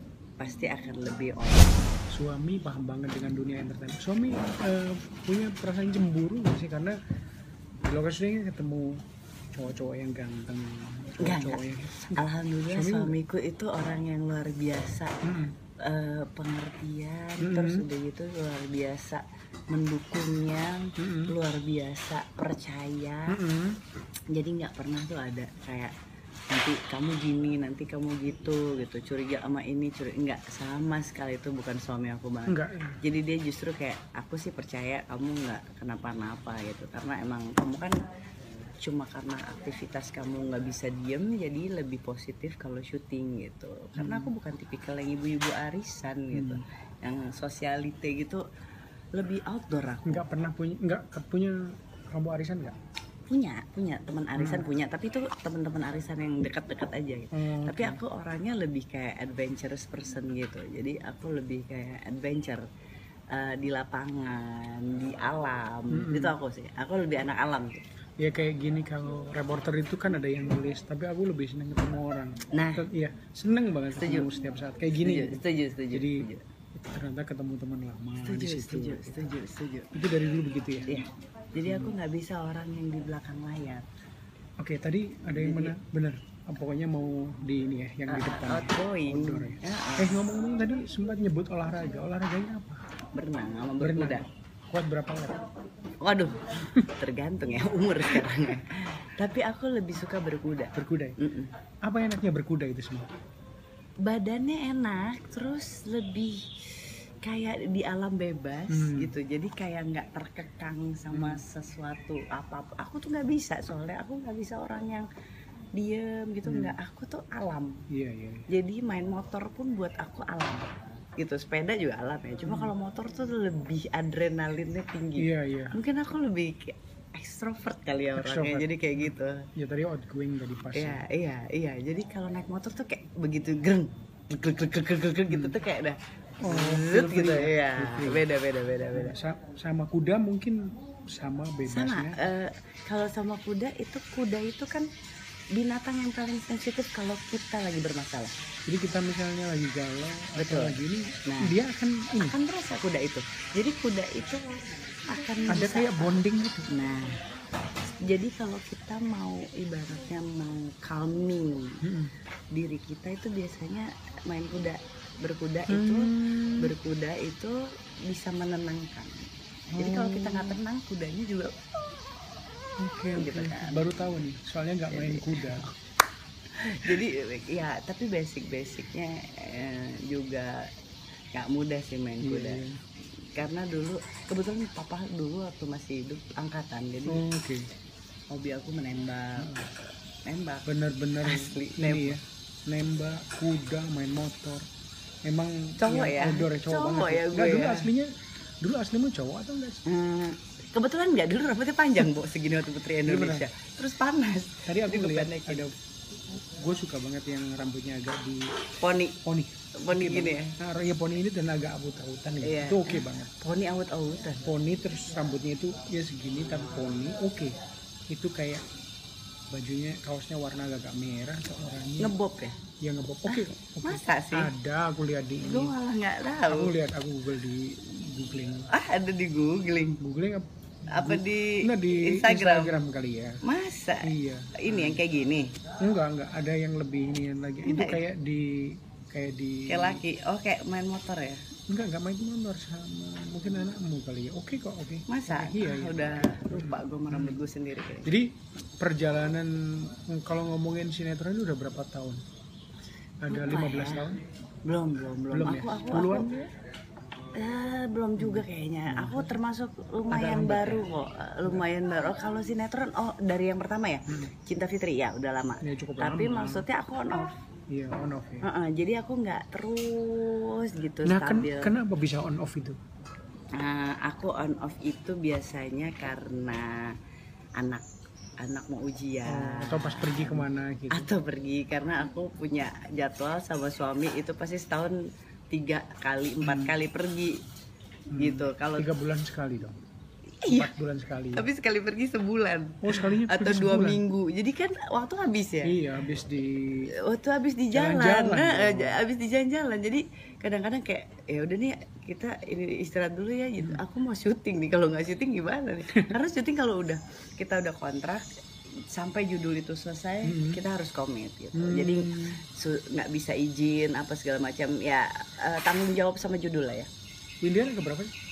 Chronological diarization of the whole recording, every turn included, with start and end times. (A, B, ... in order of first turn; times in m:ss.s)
0:00.4-0:01.9 A
0:02.1-0:07.0 B
0:07.8-0:13.2 B
0:11.2-0:15.1 A
0:15.2-0:15.6 B
0:15.8-0:23.4 A
0:17.4-0:17.8 B
0:21.0-0:21.3 B
0:23.3-0:23.8 B
0:24.3-0:25.9 A
0:26.5-0:38.0 A
0:32.5-0:33.0 B
0:38.8-0:48.4 A
0:44.0-0:44.3 B
0:46.3-0:46.6 B
0:49.1-0:50.2 A
0:50.0-0:52.7 B
0:53.3-1:02.6 A
0:54.4-0:54.7 B
0:57.3-0:58.0 B
1:03.3-1:07.8 A
1:05.9-1:06.4 B
1:08.2-1:19.3 B
1:12.5-1:12.9 A
1:14.0-1:14.3 A
1:15.0-1:16.4 A
1:18.2-1:19.9 A
1:19.9-1:21.0 B
1:20.8-1:23.9 A
1:21.6-1:21.9 B
1:24.6-1:32.8 B
1:25.3-1:25.7 A
1:28.1-1:30.2 A
1:33.1-1:34.2 A
1:33.8-1:35.4 B
1:36.0-1:41.5 A
1:40.7-1:41.2 B
1:41.8-1:43.1 B
1:44.0-1:55.1 A
1:48.7-1:49.1 B
1:51.1-1:51.4 B
1:55.7-1:57.8 A
1:56.4-1:56.8 B
1:57.9-1:58.5 B
1:58.5-2:09.4 A
2:02.5-2:02.7 B
2:05.2-2:05.8 B
2:08.2-2:11.0 B
2:10.7-2:19.1 A
2:15.3-2:15.6 B
2:16.4-2:18.3 B
2:18.9-2:22.2 B
2:21.7-2:24.9 A
2:25.5-2:28.3 A
2:28.6-2:32.4 B
2:30.4-2:31.5 A
2:32.2-2:36.1 A
2:35.5-2:36.7 B
2:36.7-2:37.2 A
2:38.0-2:41.8 A
2:41.8-2:42.1 B
2:42.5-2:51.9 A
2:45.7-2:46.7 B
2:49.7-2:50.6 B
2:52.8-2:55.7 B
2:53.1-2:54.1 A
2:54.9-2:55.7 A
2:56.5-3:00.7 A
3:01.3-3:02.6 A
3:02.2-3:02.8 B
3:03.4-3:07.2 A
3:07.1-3:07.7 B
3:08.3-3:09.7 A
3:09.4-3:09.6 B
3:10.2-3:10.7 A
3:10.6-3:14.7 B
3:11.2-3:12.2 A
3:15.2-3:19.8 B
3:15.8-3:17.9 A
3:19.8-3:25.6 A
3:23.0-3:23.5 B
3:24.6-3:25.7 B
3:26.3-3:28.5 B
3:28.8-3:29.2 A
3:29.2-3:33.3 B
3:29.7-3:30.6 A
3:32.4-3:34.4 A
3:34.4-3:37.6 B
3:38.1-3:38.6 B
3:39.5-3:42.1 B
3:42.0-3:42.6 A
3:42.8-3:45.7 B
3:43.3-3:44.5 A
3:45.4-3:46.7 A
3:46.5-3:48.7 B
3:48.7-3:50.0 A
3:50.0-3:53.4 B
3:50.9-3:52.7 A
3:53.4-3:55.5 A
3:54.0-3:55.0 B
3:55.8-4:00.0 B
3:57.6-3:58.0 A
3:59.7-4:01.4 A
4:01.7-4:07.4 B
4:05.1-4:08.1 A
4:08.0-4:12.2 B
4:13.2-4:14.2 B
4:13.3-4:14.0 A
4:14.6-4:16.4 A
4:15.3-4:16.5 B
4:17.4-4:27.3 A
4:18.2-4:19.4 B
4:20.1-4:20.9 B
4:25.6-4:26.6 B
4:27.7-4:28.4 B
4:28.4-4:31.7 A
4:31.0-4:32.8 B
4:33.5-4:36.9 A
4:37.6-4:37.8 A
4:38.4-4:47.4 A
4:39.2-4:41.1 B
4:46.4-4:46.7 B
4:48.1-4:49.8 B
4:48.2-4:48.9 A
4:50.4-4:50.7 A
4:50.4-4:51.5 B
4:51.4-4:55.7 A
4:52.8-4:54.0 B
4:55.6-4:56.9 B
4:56.9-5:08.3 A
4:57.7-4:59.0 B
5:08.9-5:16.9 A
5:10.2-5:10.6 B
5:11.5-5:12.4 B
5:17.4-5:18.1 B